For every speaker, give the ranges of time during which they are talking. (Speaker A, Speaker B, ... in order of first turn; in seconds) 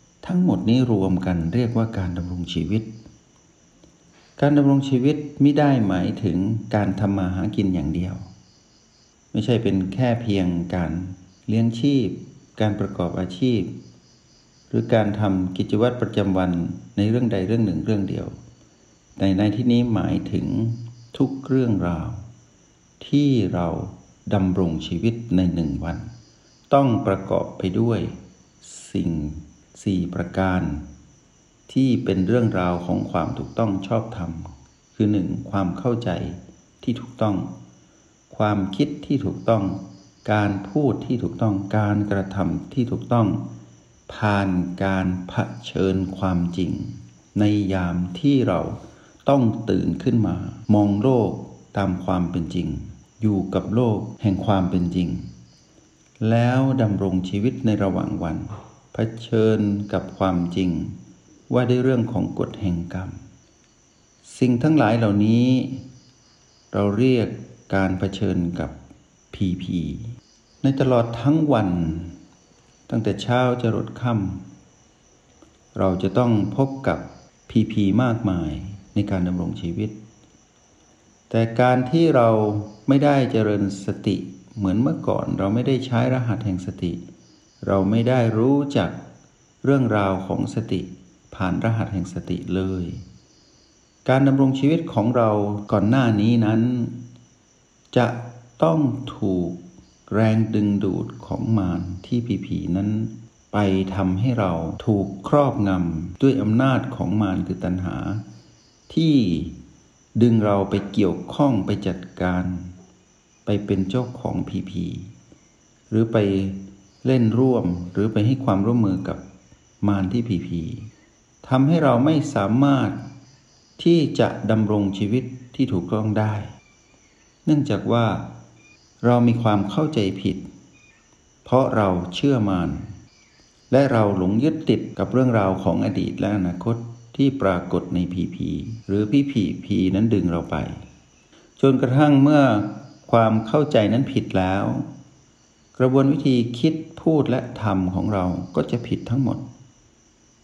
Speaker A: 0.2-2.9, 4.4-8.3, 9.3-13.7, 14.7-18.4, 19.2-22.3, 23.0-26.1, 26.7-30.9, 31.7-37.5, 38.3-43.4, 44.1-55.3, 56.2-61.0, 61.5-63.2, 64.2-65.8, 66.7-68.8, 69.3-72.2, 72.9-74.5, 75.8-80.0, 81.3-87.0, 87.6-89.0, 89.6-93.0, 94.0-97.0, 97.9-108.2, 108.9-109.6, 110.2-112.8, 113.5-115.1, 115.9-119.2, 119.8-120.9, 121.4-123.0, 123.8-126.5, 127.5-128.3, 129.0-130.5, 131.4-132.9, 133.7-140.8, 141.6-144.9, 145.8-149.4